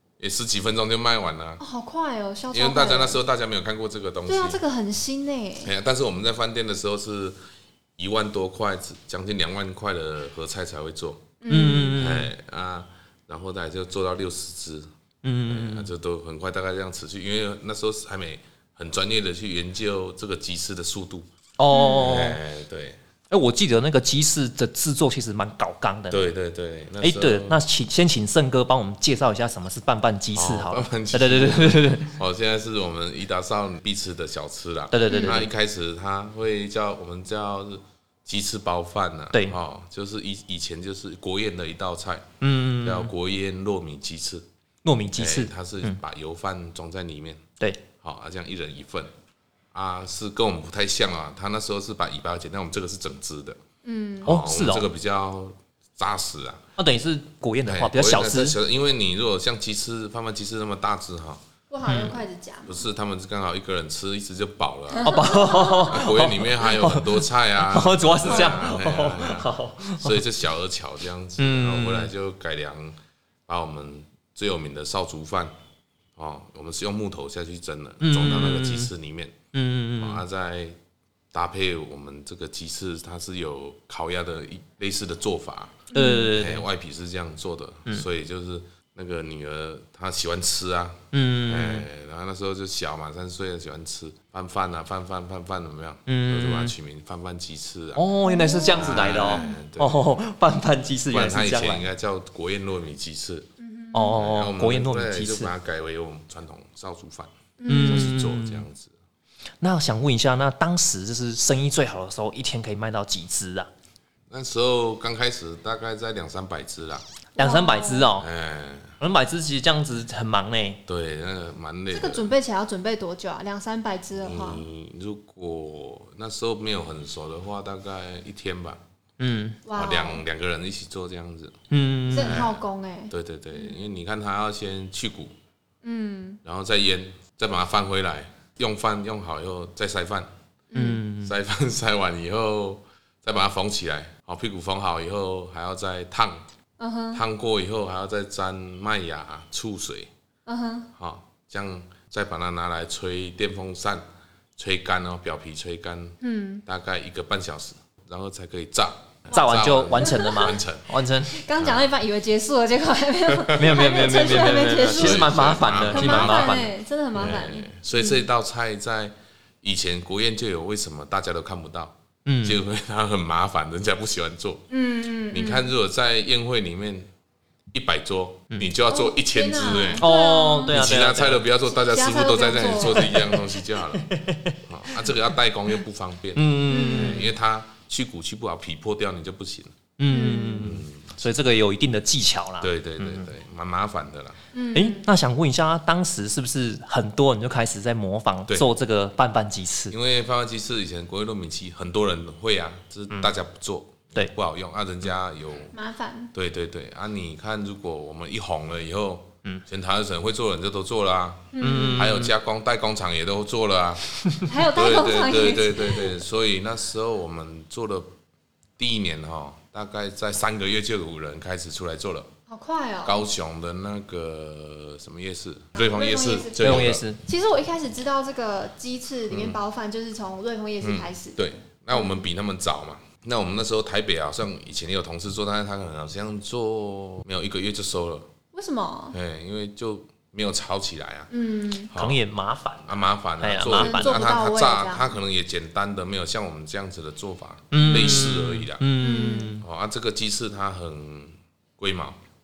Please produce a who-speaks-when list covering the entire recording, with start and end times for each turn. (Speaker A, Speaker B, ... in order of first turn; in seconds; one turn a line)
Speaker A: 0.2-1.6
Speaker B: 1.6-3.2
Speaker A: 2.5-4.6
Speaker B: 4.3-5.7
Speaker A: 5.6-7.4
Speaker A: 8.0-11.3
Speaker B: 11.4-12.0
Speaker C: 11.5-12.3
Speaker A: 12.0-14.9
Speaker C: 15.2-15.9
Speaker A: 15.5-21.3
Speaker C: 21.6-22.4
Speaker B: 21.7-22.2
Speaker A: 22.0-23.0
Speaker C: 23.3-26.3
Speaker A: 26.1-27.6
Speaker C: 27.0-32.1
Speaker A: 30.3-42.3
Speaker C: 34.9-35.5
Speaker B: 35.1-35.4
Speaker C: 42.4-43.1
Speaker A: 42.8-44.5
Speaker C: 44.9-46.0
Speaker A: 45.2-47.5
Speaker A: 48.0-49.1
Speaker A: 49.7-53.6
Speaker B: 53.8-54.3
Speaker A: 54.2-56.6
Speaker C: 54.3-54.9
Speaker C: 56.8-58.6
Speaker A: 57.7-61.4
Speaker B: 61.7-62.8
Speaker C: 61.9-62.2
Speaker A: 62.7-75.5
Speaker B: 64.9-66.1
Speaker C: 65.0-70.2
Speaker B: 68.3-68.8
Speaker C: 71.4-72.1
Speaker A: 76.2-79.4
Speaker C: 78.0-78.9
Speaker C: 79.5-80.2
Speaker A: 80.0-80.8
Speaker A: 81.3-98.1
Speaker B: 85.9-86.3
Speaker C: 85.9-86.6
Speaker C: 91.1-91.9
Speaker C: 96.1-96.8
Speaker C: 98.0-101.9
Speaker B: 98.2-99.6
Speaker A: 98.8-100.1
Speaker A: 101.1-103.5
Speaker B: 103.6-104.2
Speaker C: 103.9-105.5
Speaker A: 104.1-108.9
Speaker B: 107.6-108.1
Speaker C: 107.7-108.7
Speaker C: 109.6-113.7
Speaker A: 114.3-117.0
Speaker C: 117.4-118.3
Speaker B: 117.4-118.1
Speaker A: 118.2-119.0
Speaker C: 119.0-120.8
Speaker A: 120.9-122.3
Speaker B: 121.9-124.7
Speaker A: 124.2-128.8
Speaker C: 129.2-129.6
Speaker B: 129.7-130.2
Speaker A: 129.8-131.6
Speaker C: 131.7-132.4
Speaker B: 132.1-133.8
Speaker A: 132.2-135.3
Speaker B: 135.8-136.4
Speaker A: 136.4-140.3
Speaker B: 140.7-141.0
Speaker C: 140.7-141.3
Speaker A: 141.2-146.4
Speaker B: 146.8-147.2
Speaker A: 147.1-150.1
Speaker B: 150.5-150.9
Speaker A: 150.9-154.0
Speaker A: 154.6-160.9
Speaker B: 156.2-156.6
Speaker C: 159.3-161.4
Speaker B: 159.3-160.5
Speaker B: 161.3-168.2
Speaker A: 161.6-161.9
Speaker A: 163.3-174.7
Speaker C: 163.5-166.7
Speaker C: 172.3-172.6
Speaker B: 174.7-175.7
Speaker A: 175.3-177.1
Speaker A: 177.7-180.1
Speaker B: 178.9-180.8
Speaker C: 180.0-181.4
Speaker A: 180.7-184.1
Speaker B: 181.7-183.3
Speaker C: 183.9-184.6
Speaker A: 184.7-189.8
Speaker C: 186.4-187.3
Speaker B: 186.7-187.3
Speaker C: 190.0-193.3
Speaker B: 190.1-190.8
Speaker A: 190.6-191.2
Speaker A: 192.6-194.4
Speaker B: 194.5-195.1
Speaker C: 194.7-199.9
Speaker A: 199.9-205.7
Speaker B: 205.7-206.3
Speaker A: 206.3-214.0
Speaker B: 211.5-212.1
Speaker C: 211.6-212.3
Speaker C: 214.1-214.4
Speaker B: 214.5-216.2
Speaker A: 214.6-218.1
Speaker A: 218.8-222.3
Speaker B: 222.5-223.2
Speaker A: 223.0-227.0
Speaker B: 225.8-232.3
Speaker C: 226.6-227.2
Speaker A: 229.3-229.6
Speaker A: 230.8-238.3
Speaker B: 238.5-239.2
Speaker A: 239.1-241.3
Speaker B: 241.3-241.9
Speaker A: 241.9-242.2
Speaker C: 241.9-244.2
Speaker A: 242.9-248.8
Speaker B: 243.6-245.1
Speaker C: 247.7-249.6
Speaker B: 249.0-249.6
Speaker A: 249.6-252.2